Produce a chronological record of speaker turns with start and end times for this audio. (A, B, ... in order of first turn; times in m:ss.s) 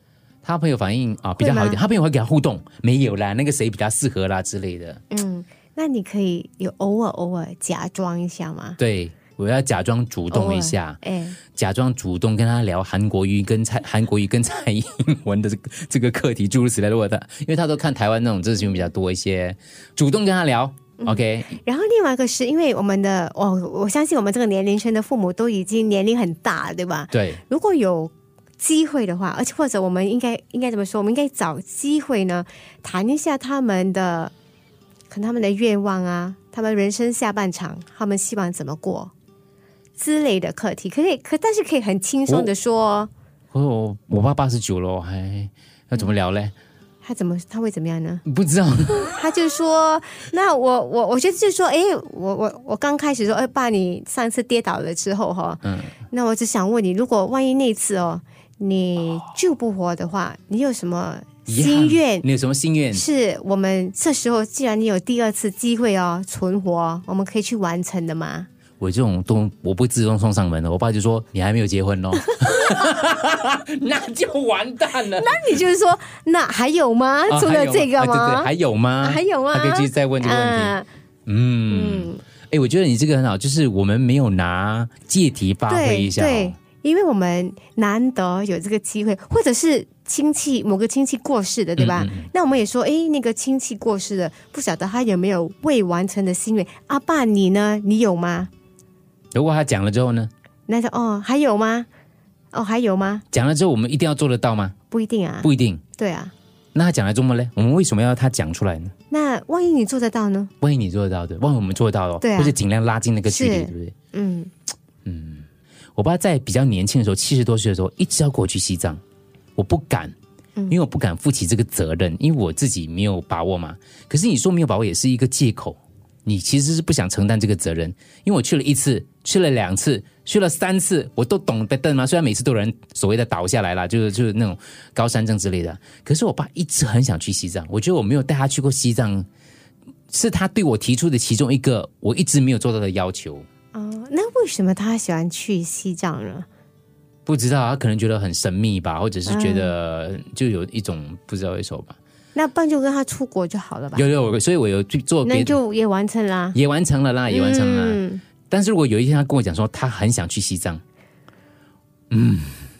0:00.4-0:05.0 A
0:01.4-0:01.8 B
0:05.1-0:08.8 B
0:08.8-0:11.0 A
0:10.3-0:11.4 B
0:11.5-0:21.6 A
0:21.0-0:34.3 B
0:27.1-0:27.4 A
0:35.1-0:39.1 B
0:40.0-0:43.1 B
0:43.5-0:46.5 A
0:47.0-0:48.2 B
0:48.3-0:49.1 A
0:49.0-1:02.3 B
0:55.6-0:55.9 A
1:01.5-1:03.0 A
1:02.9-1:08.5 B
1:08.8-1:15.4 A
1:15.2-1:18.5 B
1:17.3-1:26.6 A
1:19.0-1:20.9 B
1:21.7-1:22.2 B
1:25.7-1:38.5 B
1:31.8-1:32.3 A
1:39.3-1:40.3 A
1:40.7-1:41.9 B
1:42.5-1:43.2 B
1:43.3-1:44.7 A
1:44.9-1:46.3 B
1:45.4-1:45.8 A
1:46.7-1:48.9 A
1:49.1-1:50.5 B
1:50.6-1:53.9 A
1:52.2-1:52.6 B
1:53.3-1:54.5 B
1:55.0-1:59.0 A
1:59.6-2:00.1 A
2:00.7-2:19.3 A
2:20.1-2:23.4 A
2:23.7-2:26.5 B
2:27.2-2:32.0 A
2:29.2-2:29.7 B
2:32.4-2:34.1 B
2:34.0-2:35.6 A
2:35.2-2:36.6 B
2:36.5-2:40.8 A
2:37.3-2:38.2 B
2:42.1-2:42.6 A